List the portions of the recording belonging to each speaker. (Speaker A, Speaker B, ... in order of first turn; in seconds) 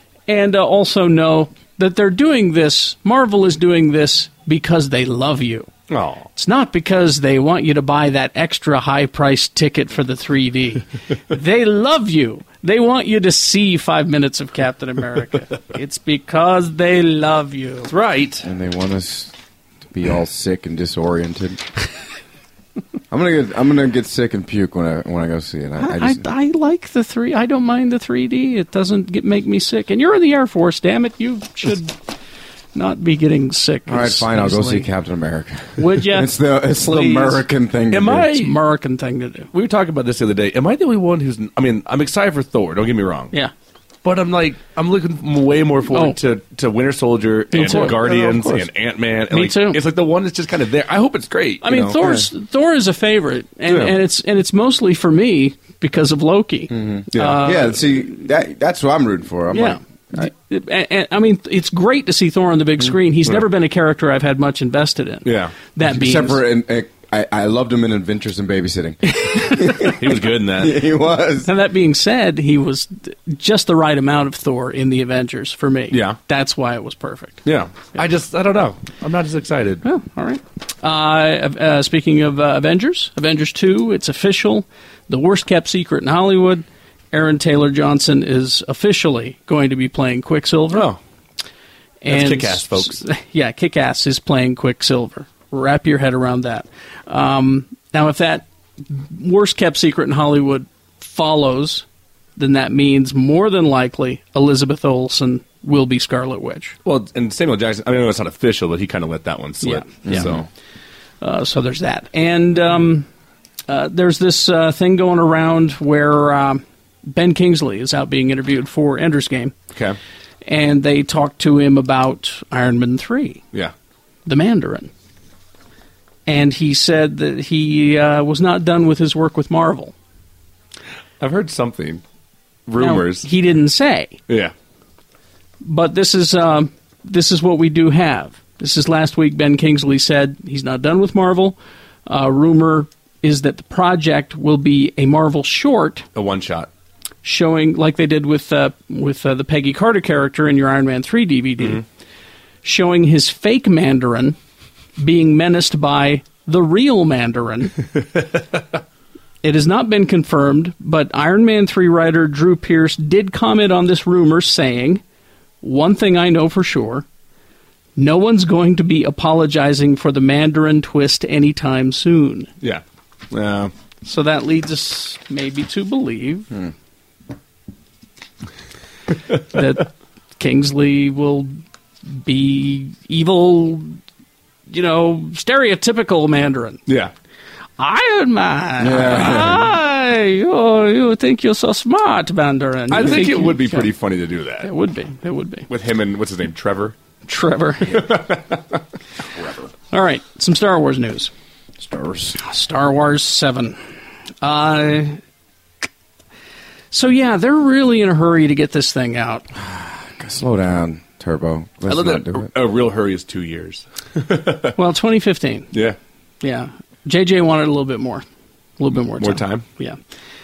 Speaker A: 0.3-5.7, 6.4-17.9, 25.8-32.0, 32.7-34.9, 35.8-37.5, 38.3-39.5, 45.9-46.2, 47.5-48.5, 49.3-49.8, 51.6-57.9, 59.5-66.4, 69.2-69.9, 71.5-77.4, 79.8-90.9, 92.0-101.8, 102.4-106.8, 109.6-110.3, 111.2-113.1, 113.7-119.5, 120.5-123.4, 124.3-124.9, 126.3-129.9, 132.8-134.2, 135.6-146.1, 147.2-151.8, 152.6-154.4, 155.0-157.8, 159.4-165.0, 165.6-167.1, 168.0-172.5, 174.1-176.5, 179.5-181.5, 182.1-184.0, 184.7-186.8, 187.8-193.9, 194.6-195.7, 197.3-198.1, 199.9-201.3, 202.4-203.8, 204.4-205.2, 206.9-209.5, 214.8-215.7, 216.4-218.2, 218.8-220.0
Speaker B: 5.9-6.3, 17.9-18.5, 37.9-38.5, 39.5-43.3, 44.0-52.0, 53.7-54.0, 57.1-57.5, 65.2-65.6, 69.8-70.9, 75.9-76.2, 77.5-79.8, 90.7-91.0, 92.1-93.0, 106.8-110.5, 131.2-132.0, 132.7-133.3, 146.2-146.7, 172.6-173.7, 186.9-187.1, 192.9-194.7, 195.7-196.9, 197.9-198.8, 211.9-214.8, 219.2-219.6
Speaker C: 18.4-19.3, 19.9-21.6, 23.1-26.2, 33.9-38.3, 47.6-48.6, 51.9-52.3, 56.7-60.3, 65.8-69.9, 70.6-71.5, 110.0-110.4, 188.8-189.7, 201.9-202.3, 209.6-212.5